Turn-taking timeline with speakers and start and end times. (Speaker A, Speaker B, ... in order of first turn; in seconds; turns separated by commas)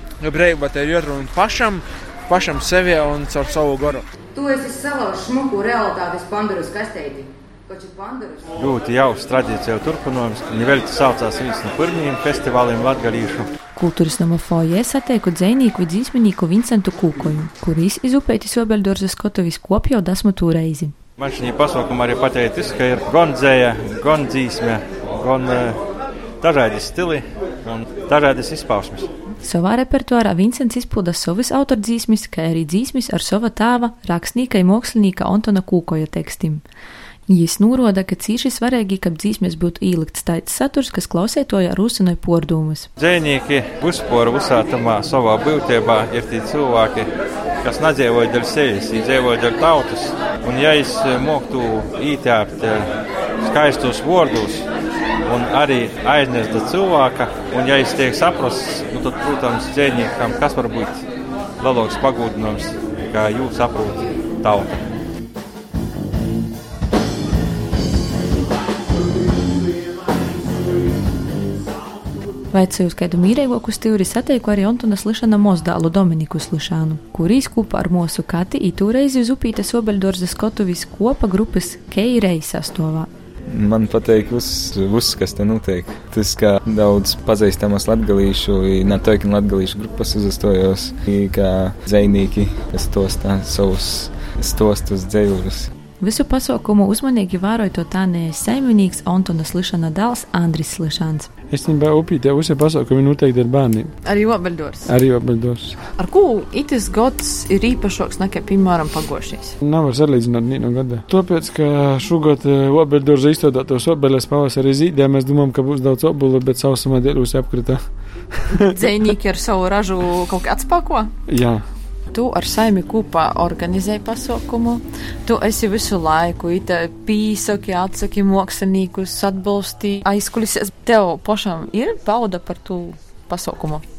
Speaker A: 0.2-4.0, Speaker B: 4.4-8.3, Speaker C: 8.6-13.5, Speaker D: 13.8-20.9, Speaker C: 21.2-25.8, Speaker C: 26.4-29.1, Speaker D: 29.4-36.6, Speaker D: 37.3-42.9, Speaker C: 43.0-47.1, Speaker C: 47.6-52.9, Speaker C: 53.4-54.6, Speaker C: 55.3-61.0, Speaker C: 61.6-64.8, Speaker D: 72.5-83.1, Speaker E: 83.5-95.7, Speaker D: 96.0-101.3, Speaker F: 101.5-103.9, Speaker G: 104.0-104.9, Speaker F: 104.8-105.9, Speaker G: 106.0-109.5, Speaker F: 109.6-117.8, Speaker G: 118.8-121.1, Speaker F: 121.3-121.6, Speaker G: 122.1-133.8